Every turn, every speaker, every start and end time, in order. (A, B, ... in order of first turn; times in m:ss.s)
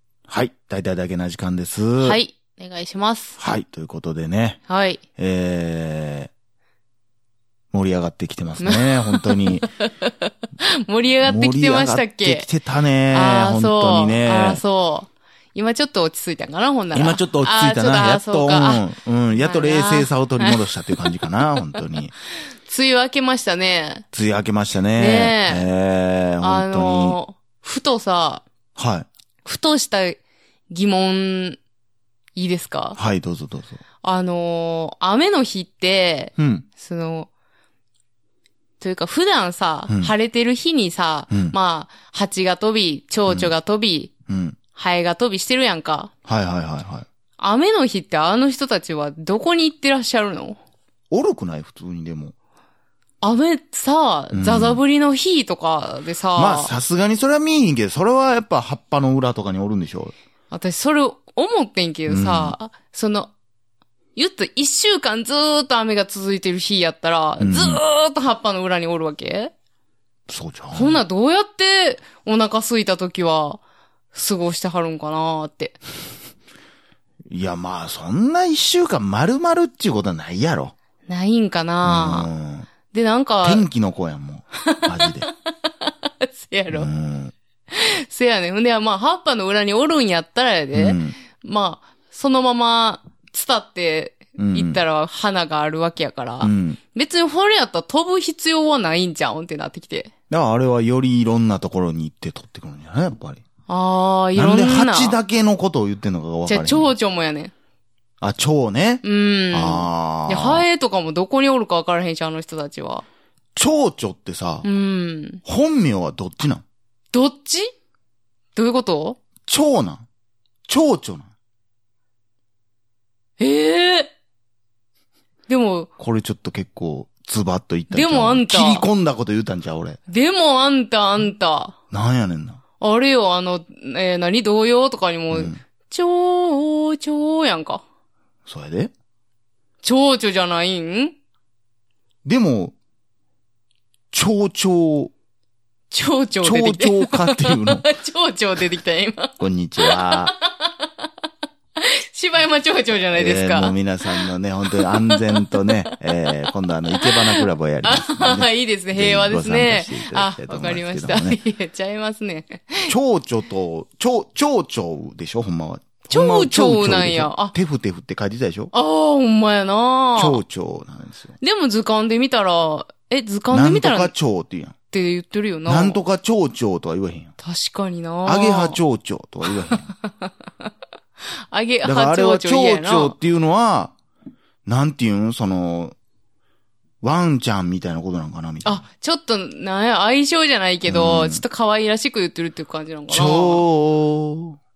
0:00.3-0:02.2 A
0:02.0-0:03.4 B
0:03.4-0:04.6 A
0:04.7-0:05.0 B
0:05.2-0:06.3 A
0:07.7-0:09.7 A
0:08.6-0:12.5 B
0:11.2-0:14.6 A
0:13.1-0:18.8 B
0:16.9-0:22.1 A
0:19.4-0:21.3 B
0:22.6-0:24.0 B
0:24.1-0:27.2 A
0:25.0-0:25.7 B
0:26.4-0:28.4 B
0:28.8-0:29.1 A
0:29.4-0:31.6 B
0:32.3-0:33.0 B
0:32.9-0:33.8 A
0:34.0-0:37.3 B
0:36.4-0:36.6 A
0:38.8-0:44.1 B
0:39.9-0:40.1 A
0:41.3-0:41.5 A
0:43.3-0:43.5 A
0:44.3-0:44.6 A
0:44.7-0:46.1 B
0:46.2-0:47.0 A
0:47.4-0:50.6 B
0:51.1-0:52.3 A
0:53.2-0:56.7 B
0:54.3-0:54.8 A
0:56.4-1:00.1 A
1:00.5-1:03.3 B
1:02.1-1:02.6 A
1:04.1-1:09.5 B
1:07.4-1:07.8 A
1:10.3-1:11.0 A
1:10.7-1:13.6 B
1:14.1-1:15.8 B
1:17.3-1:20.7 A
1:21.1-1:22.3 B
1:21.8-1:22.7 A
1:22.9-1:23.7 B
1:23.4-1:25.3 A
1:24.7-1:25.2 B
1:25.8-1:26.9 B
1:26.7-1:27.3 A
1:27.7-1:40.1 B
1:30.7-1:31.2 A
1:34.4-1:34.8 A
1:36.4-1:36.8 A
1:40.3-1:43.4 A
1:43.7-1:45.2 B
1:44.4-1:46.9 A
1:46.5-1:47.5 B
1:48.2-1:50.6 A
1:49.0-1:53.0 B
1:53.5-1:54.6 A
1:54.6-1:55.4 B
1:55.4-1:56.6 A
1:57.1-1:57.7 B
1:58.6-1:59.2 B
1:59.4-2:00.0 A
2:00.7-2:01.3 A
2:03.4-2:04.1 B
2:05.5-2:05.9 B
2:06.0-2:10.0 A
2:07.9-2:08.8 B
2:10.1-2:11.7 B
2:11.9-2:12.6 A
2:12.8-2:17.8 B
2:15.3-2:15.6 A
2:18.5-2:18.9 A
2:19.8-2:21.1 B
2:22.2-2:22.7 A
2:24.1-2:25.1 A
2:25.9-2:31.1 B
2:26.4-2:27.8 A
2:29.4-2:30.3 A
2:31.8-2:33.8 B
2:33.1-2:41.4 A
2:34.8-2:35.6 B
2:37.0-2:42.9 B
2:42.9-2:48.7 A
2:46.1-2:47.5 B
2:48.7-2:50.4 B
2:50.2-2:51.4 A
2:51.4-2:54.1 B
2:53.5-2:54.7 A
2:54.9-2:56.0 B
2:55.7-2:57.3 A
2:57.4-2:58.8 B
2:58.2-2:59.9 A
2:59.7-3:00.3 B
3:01.5-3:03.2 B
3:01.8-3:03.9 A
3:04.6-3:05.9 A
3:07.0-3:08.8 A
3:08.6-3:13.6 B
3:10.8-3:11.4 A
3:13.1-3:14.6 A